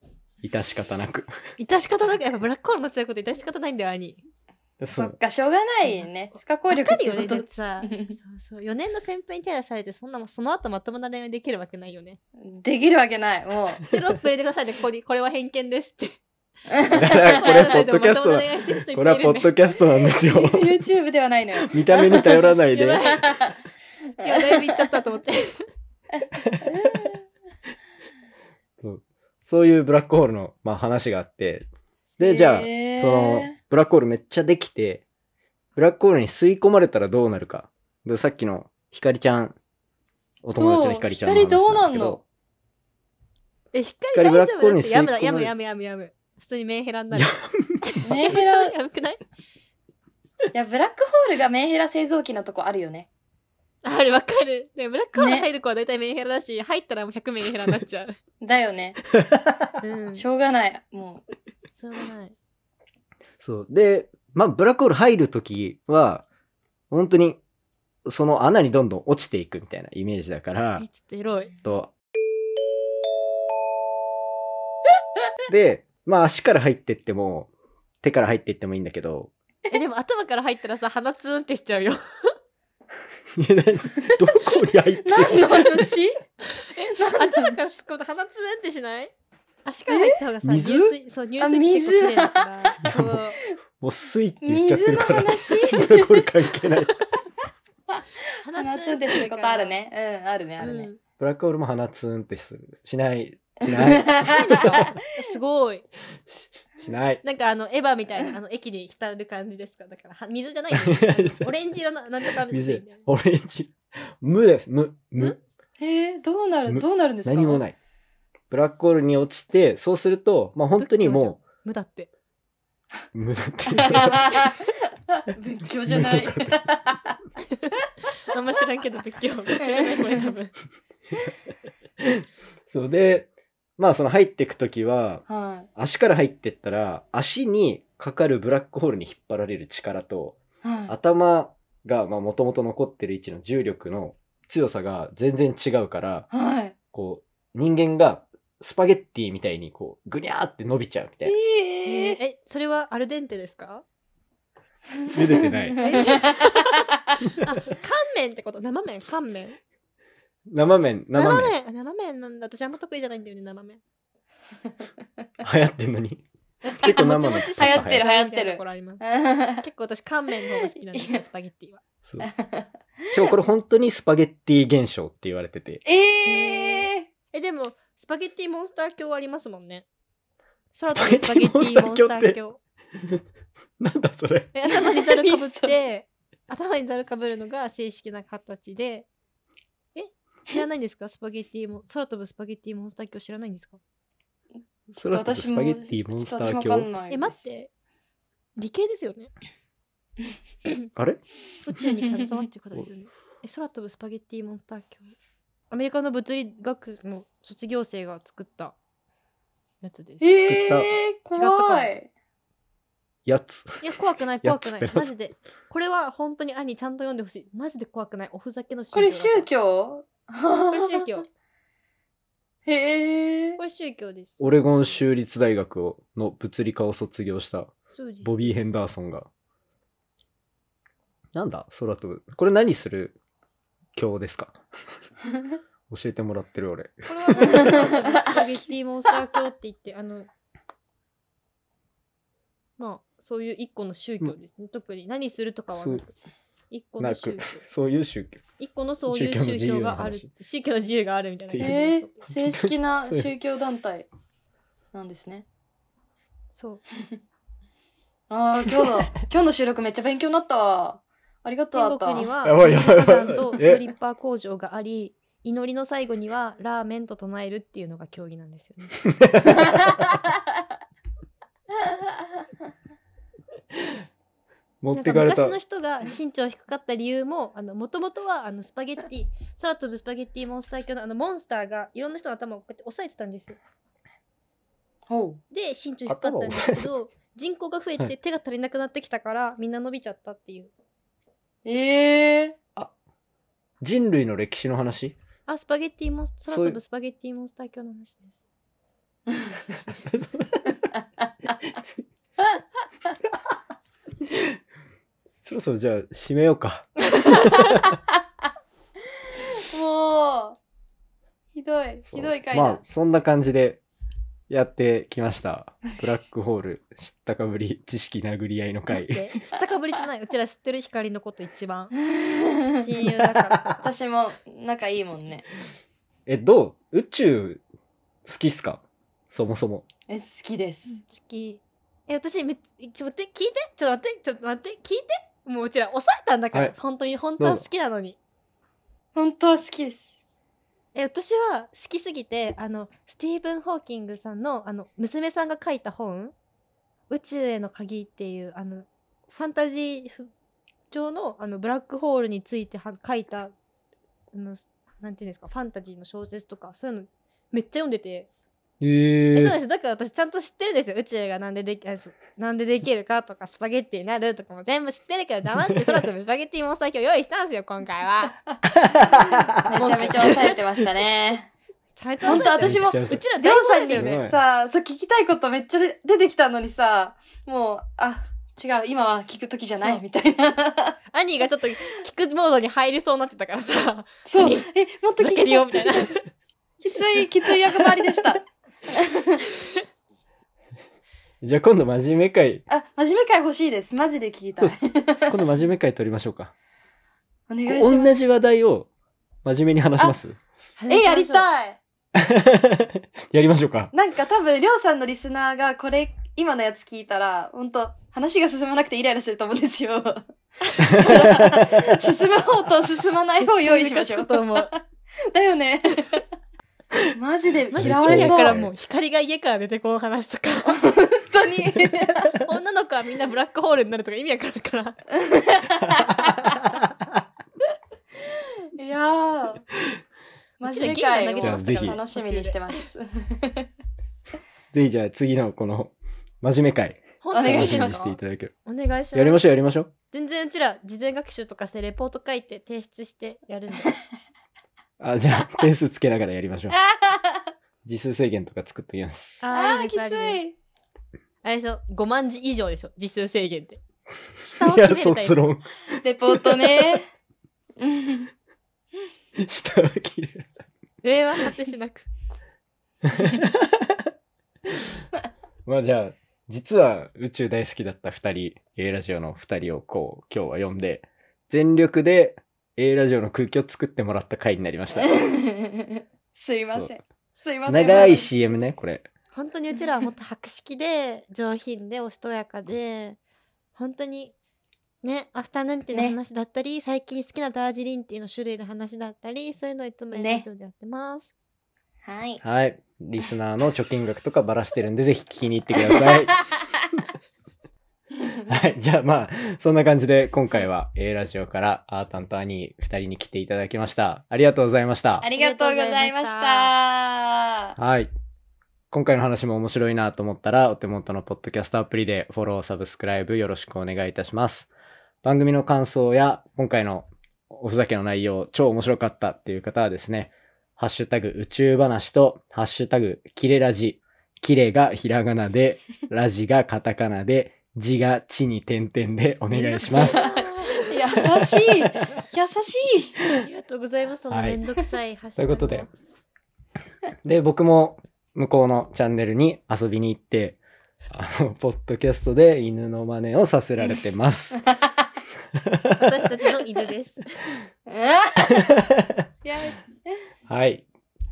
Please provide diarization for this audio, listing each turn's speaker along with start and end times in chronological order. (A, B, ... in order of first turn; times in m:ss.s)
0:00.4-0:01.3 A
0:01.6-0:04.2 B
0:04.8-0:05.2 A
0:05.0-0:08.1 C
0:06.7-0:12.2 B
0:12.4-0:13.8 C
0:13.9-0:16.2 B
0:16.7-0:17.8 C
0:16.9-0:20.8 A
0:17.1-0:19.5 B
0:20.3-0:22.3 C
0:21.6-0:23.2 A
0:22.7-0:23.4 B
0:24.2-0:25.0 C
0:24.2-0:25.7 B
0:26.6-0:27.2 C
0:28.8-0:31.7 A
0:32.2-0:33.5 C
0:32.2-0:35.0 A
0:35.8-0:39.6 A
0:40.4-0:42.2 A
0:40.5-0:42.2 C
0:43.7-0:49.2 B
0:44.1-0:45.5 A
0:47.1-0:48.0 A
0:48.0-0:48.7 C
0:50.5-0:53.1 C
0:53.8-0:58.2 B
0:55.2-0:55.5 C
0:58.4-0:59.0 C
0:59.2-0:59.7 A
0:59.8-1:00.2 B
1:00.1-1:01.2 C
1:01.8-1:02.3 B
1:03.4-1:06.2 A
1:06.9-1:07.4 A
1:08.0-1:10.8 A
1:10.8-1:11.5 B
1:11.6-1:11.9 A
1:15.5-1:17.5 A
1:18.0-1:19.3 A
1:19.7-1:22.0 B
1:23.4-1:25.9 A
1:24.0-1:24.5 C
1:25.0-1:26.2 C
1:26.5-1:29.1 B
1:26.9-1:27.6 C
1:29.6-1:33.4 B
1:29.9-1:30.2 C
1:30.4-1:30.9 A
1:31.4-1:32.8 C
1:32.8-1:33.2 A
1:33.8-1:37.0 A
1:34.4-1:36.3 C
1:37.9-1:40.9 C
1:38.4-1:39.7 B
1:40.6-1:41.0 B
1:41.2-1:44.7 A
1:43.8-1:44.9 C
1:44.2-1:45.9 B
1:46.3-1:47.2 A
1:47.2-1:53.1 B
1:50.7-1:51.6 A
1:52.5-1:55.4 A
1:55.8-1:57.6 C
1:56.7-1:57.8 A
1:58.5-2:01.4 A
2:00.8-2:02.1 B
2:03.1-2:04.5 A
2:03.7-2:07.1 C
2:05.9-2:06.7 A
2:07.5-2:10.5 B
2:09.6-2:10.3 C
2:12.0-2:26.3 A
2:15.3-2:15.7 C
2:20.6-2:20.9 C
2:26.3-2:26.8 C
2:26.9-2:31.4 A
2:31.2-2:32.2 C
2:31.8-2:33.8 B
2:35.0-2:36.9 C
2:35.1-2:35.8 A
2:35.8-2:36.9 B
2:37.2-2:37.5 A
2:37.4-2:39.6 B
2:40.5-2:41.5 A
2:41.2-2:43.8 B
2:45.4-2:46.2 A
2:46.6-2:49.0 B
2:46.8-2:48.0 A
2:47.0-2:49.6 C
2:49.6-2:51.8 B
2:50.9-2:51.2 C
2:52.2-2:52.7 C
2:53.1-2:55.8 A
2:55.8-2:57.1 C
2:56.3-2:59.9 B
3:00.7-3:02.6 B
3:01.0-3:02.4 A
3:03.8-3:04.5 A
3:04.6-3:09.1 B
3:04.7-3:05.8 C
3:10.0-3:13.8 B
3:14.9-3:16.9 A
3:15.1-3:17.5 C
3:17.1-3:17.7 B
3:18.6-3:19.3 B
3:21.0-3:21.2 A
3:21.6-3:25.1 B
3:21.8-3:22.3 C
3:25.7-3:28.7 B
3:29.8-3:30.4 B
3:30.2-3:32.1 C
3:30.4-3:30.9 A
3:31.3-3:31.9 B
3:33.3-3:35.1 A
3:33.8-3:39.5 B
3:38.9-3:41.2 C
3:40.7-3:41.3 B
3:42.7-3:43.6 C
3:43.6-3:45.1 B
3:44.4-3:49.3 A
3:47.9-3:48.6 B
3:51.4-3:53.2 A
3:54.0-3:54.6 A
3:55.9-3:57.9 A
3:57.1-4:00.3 B
3:57.4-3:58.5 C
4:02.8-4:06.1 B
4:05.7-4:06.0 A
4:06.7-4:07.6 B
4:07.0-4:08.4 A
4:08.6-4:12.2 B
4:09.1-4:10.3 A
4:11.5-4:13.3 A
4:11.6-4:14.1 C
4:14.9-4:15.4 C
4:16.5-4:16.8 B
4:18.3-4:22.3 C
4:21.8-4:29.0 B
4:22.4-4:23.8 A
4:29.0-4:30.1 A
4:34.8-4:35.6 A
4:35.0-4:43.6 B
4:45.1-4:45.4 C
4:45.5-4:50.7 B
4:46.1-4:46.9 A
4:51.6-4:52.6 C
4:53.8-4:55.2 A
4:55.5-4:58.4 B
4:56.5-4:56.8 A
4:59.8-5:00.7 A
5:04.3-5:04.6 A
5:05.4-5:08.0 A
5:09.4-5:10.6 C
5:11.5-5:12.8 C
5:12.1-5:13.8 A
5:14.5-5:19.3 A
5:18.9-5:22.0 B
5:22.1-5:22.9 C
5:22.8-5:23.7 B
5:23.8-5:25.4 C
5:26.3-5:27.6 A
5:28.2-5:29.8 A
5:30.1-5:31.0 C
5:30.9-5:38.2 B
5:37.4-5:37.6 A
5:39.2-5:40.1 C
5:41.0-5:46.3 B
5:47.1-5:50.3 B
5:50.9-5:53.5 B
5:54.3-5:58.3 B
5:58.8-5:59.6 A
5:59.3-6:08.4 B
6:08.7-6:10.1 A
6:09.1-6:11.5 C
6:09.7-6:10.6 B
6:12.0-6:14.2 B
6:12.2-6:21.0 C
6:12.3-6:13.2 A
6:14.0-6:14.4 A
6:21.1-6:24.7 B
6:24.3-6:26.1 C
6:25.2-6:26.2 B
6:26.8-6:29.4 C
6:31.4-6:32.6 A
6:32.7-6:35.4 C
6:35.3-6:36.5 A
6:37.5-6:38.1 C
6:37.7-6:38.9 A
6:39.4-6:40.4 A
6:40.8-6:41.4 B
6:40.9-6:41.8 C
6:42.2-6:43.9 A
6:43.9-6:50.2 C
6:50.8-6:56.2 C
6:50.8-6:52.0 A
6:50.9-6:51.1 B
6:53.4-6:54.7 B
6:57.1-6:58.6 C
6:57.7-7:00.8 B
6:57.7-6:58.7 A
7:00.6-7:02.3 C
7:02.4-7:05.0 B
7:05.2-7:06.2 C
7:06.0-7:06.6 A
7:08.8-7:09.7 C
7:10.6-7:13.7 C
7:10.6-7:12.8 B
7:11.4-7:12.0 A
7:14.7-7:18.5 A
7:17.2-7:18.0 B
7:17.3-7:18.2 C
7:18.7-7:19.4 B
7:19.2-7:19.9 A
7:20.1-7:23.9 B
7:25.0-7:26.8 A
7:26.7-7:27.5 C
7:27.8-7:29.4 A
7:29.4-7:30.4 B
7:29.5-7:30.6 C
7:31.4-7:33.8 B
7:34.4-7:35.4 B
7:34.6-7:35.8 A
7:36.0-7:37.1 C
7:36.3-7:36.8 A
7:37.8-7:38.3 C
7:39.4-7:40.7 A
7:41.0-7:42.1 B
7:43.0-7:44.1 A
7:45.7-7:55.2 A
7:54.9-7:58.3 C
7:56.7-7:57.0 A
7:57.7-7:59.1 A
7:59.3-8:03.2 B
8:03.8-8:04.3 B
8:05.0-8:11.4 B
8:10.1-8:10.5 C
8:12.0-8:12.4 C
8:12.4-8:16.4 A
8:18.4-8:25.3 A
8:25.2-8:27.8 C
8:25.3-8:26.7 B
8:27.8-8:28.1 A
8:28.9-8:34.7 A
8:35.2-8:50.2 A
8:49.5-8:51.0 B
8:50.0-8:53.2 C
8:53.4-8:55.9 B
8:54.3-8:54.6 A
8:55.4-8:55.9 A
8:57.2-9:00.6 A
9:01.1-9:04.6 A
9:05.6-9:06.2 A
9:06.0-9:07.2 B
9:07.9-9:08.7 C
9:08.4-9:09.2 A
9:09.4-9:10.2 C
9:10.5-9:10.9 A